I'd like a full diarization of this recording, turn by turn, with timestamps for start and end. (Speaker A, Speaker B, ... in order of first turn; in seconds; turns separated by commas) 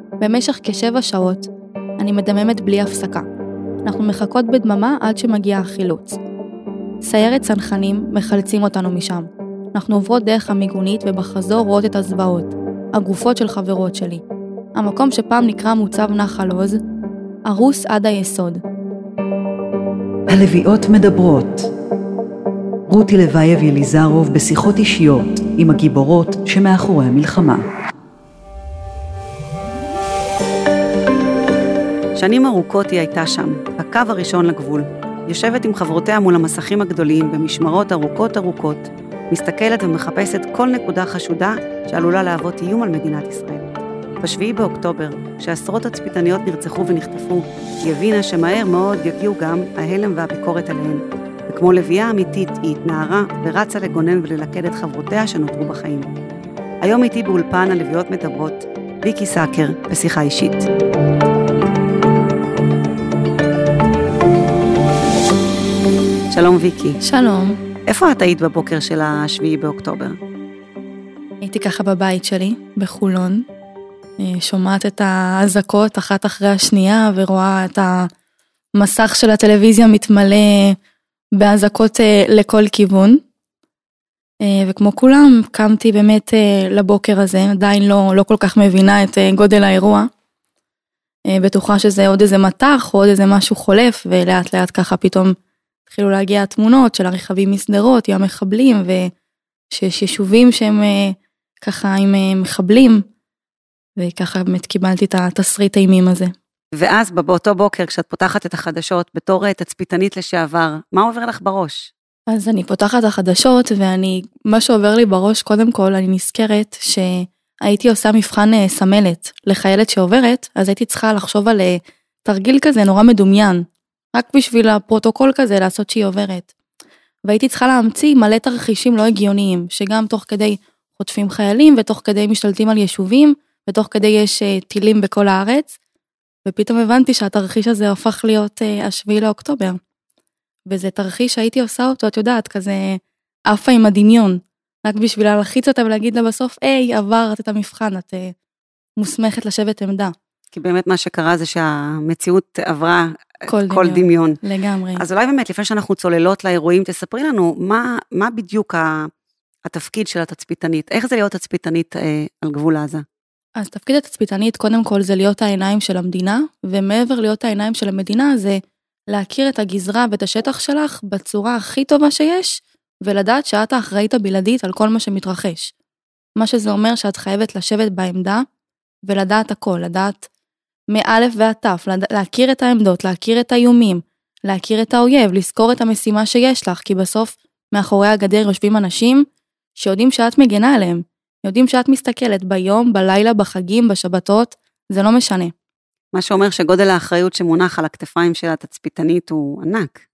Speaker A: 0.2-1.5, Speaker A: 2.0-3.2, Speaker A: 3.9-6.2, Speaker A: 7.0-14.2, Speaker A: 14.8-16.8, Speaker A: 17.5-18.6, Speaker B: 20.3-21.7, Speaker B: 22.9-27.6, Speaker C: 32.1-43.7, Speaker C: 44.2-56.1, Speaker C: 56.8-60.7, Speaker C: 66.3-67.0, Speaker A: 67.0-67.6, Speaker C: 67.9-70.2, Speaker A: 71.4-73.4, Speaker A: 74.2-78.1, Speaker A: 78.8-80.8, Speaker A: 81.4-83.2, Speaker A: 84.4-90.1, Speaker A: 91.3-95.3, Speaker A: 95.9-99.1, Speaker A: 99.7-103.0, Speaker A: 104.0-106.3, Speaker C: 106.8-111.9, Speaker A: 112.3-126.5, Speaker A: 127.3-135.7, Speaker A: 136.4-139.8, Speaker A: 140.7-148.3, Speaker A: 149.0-150.1, Speaker C: 150.5-154.4, Speaker A: 153.4-155.0, Speaker C: 154.9-159.1, Speaker C: 159.6-163.0, Speaker A: 163.6-168.6, Speaker A: 169.1-175.7, Speaker A: 176.4-178.4, Speaker A: 179.0-180.3, Speaker A: 180.9-189.2, Speaker A: 189.8-195.5, Speaker C: 196.1-200.0